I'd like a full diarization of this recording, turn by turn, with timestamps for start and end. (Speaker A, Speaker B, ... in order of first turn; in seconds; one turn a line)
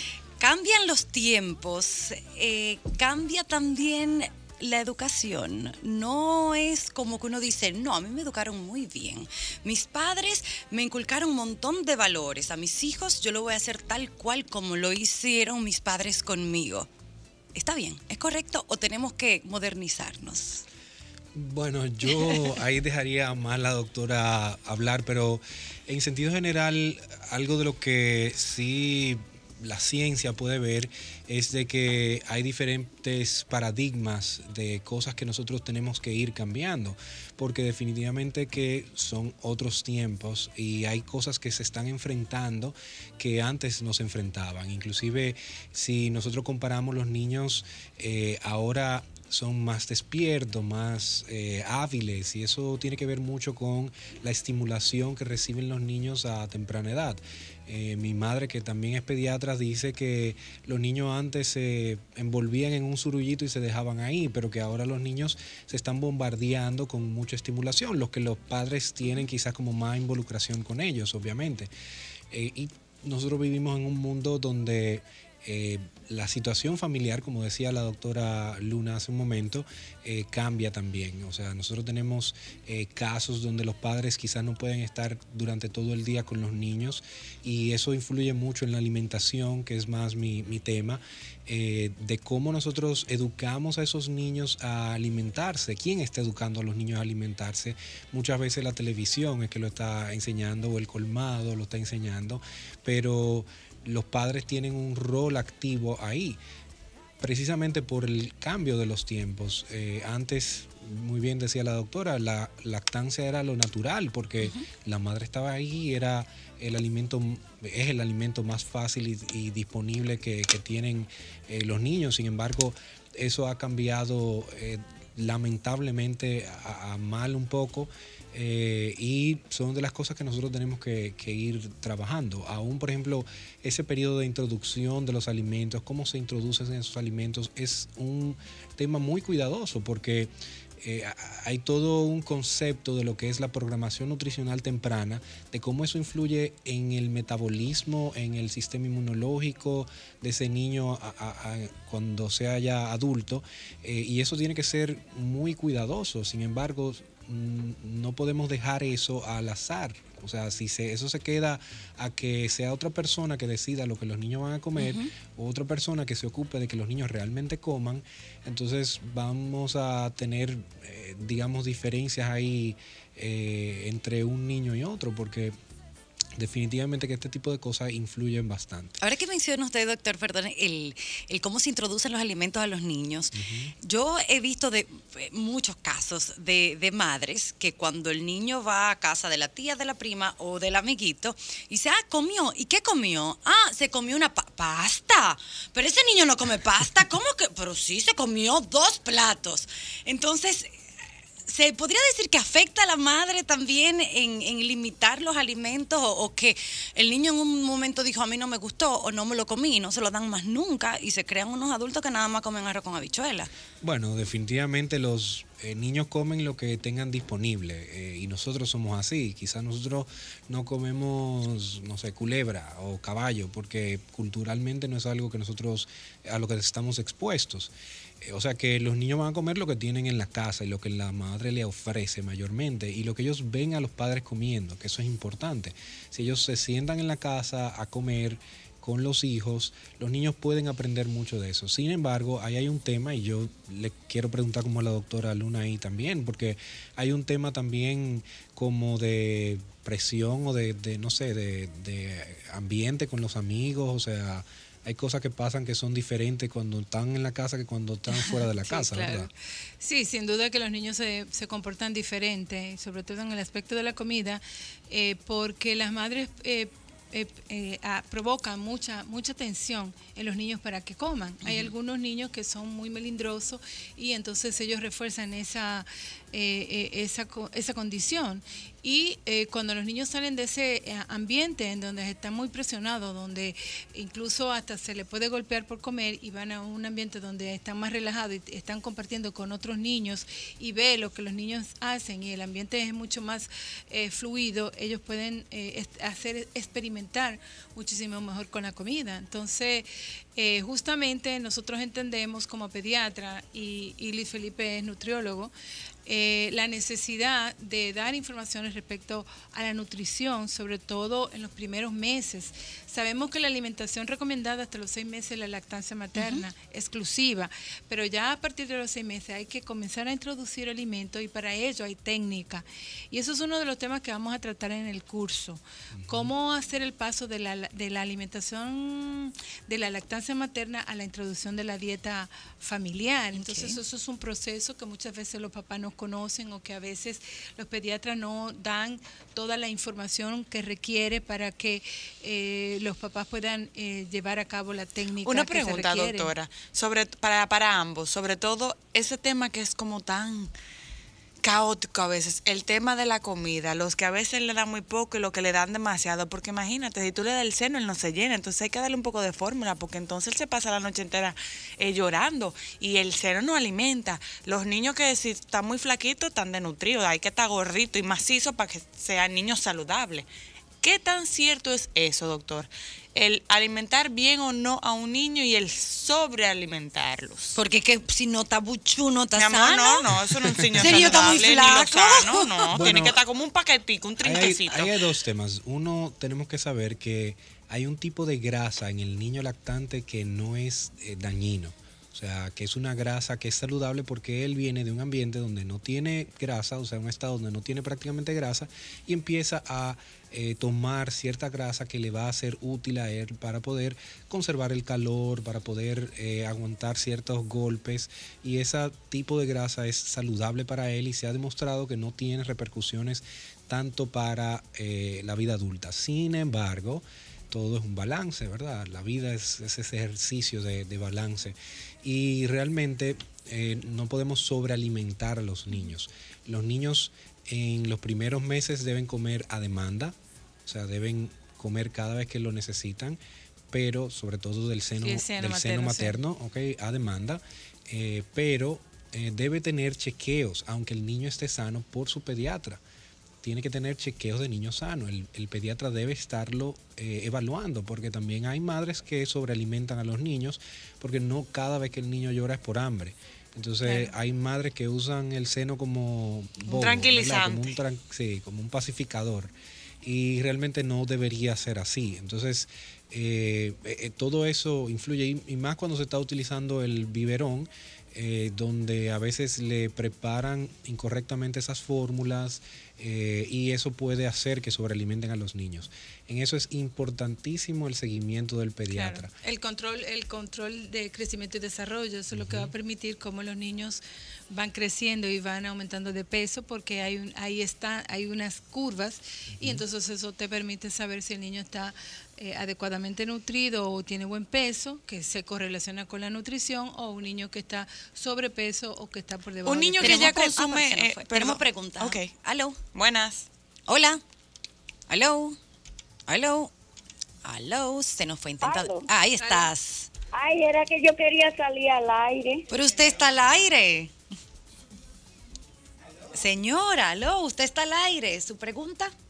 Speaker A: 0.4-16.9
Speaker A: 17.6-20.6
Speaker B: 21.3-71.7
Speaker B: 72.3-106.4
Speaker B: 107.2-175.6
Speaker A: 164.8-165.1
Speaker B: 176.3-179.0
Speaker A: 179.0-200.8
Speaker B: 183.3-183.7
Speaker A: 201.5-213.5
Speaker B: 213.8-259.3
Speaker C: 258.3-305.5
Speaker A: 271.4-271.7
Speaker C: 306.1-346.3
Speaker A: 316.1-316.5
Speaker B: 326.0-326.3
Speaker A: 333.3-333.8
Speaker D: 345.2-350.5
Speaker D: 351.4-370.3
Speaker D: 370.8-377.6
Speaker A: 377.6-382.8
Speaker D: 379.4-385.0
Speaker B: 380.8-381.3
Speaker B: 382.7-383.2
Speaker B: 384.2-433.2
Speaker B: 433.7-442.8
Speaker C: 435.0-436.2
Speaker B: 443.4-479.3
Speaker C: 453.8-454.1
Speaker D: 456.7-457.8
Speaker C: 478.9-500.3
Speaker B: 482.3-482.7
Speaker B: 489.6-489.8
Speaker D: 499.6-502.3
Speaker A: 500.0-502.8
Speaker D: 502.9-503.5
Speaker A: 503.9-504.2
Speaker A: 505.1-505.6
Speaker A: 506.3-506.7
Speaker A: 507.4-510.1
Speaker E: 508.6-509.1
Speaker C: 509.4-509.7
Speaker E: 510.3-512.6
Speaker A: 512.7-514.1
Speaker A: 516.3-519.1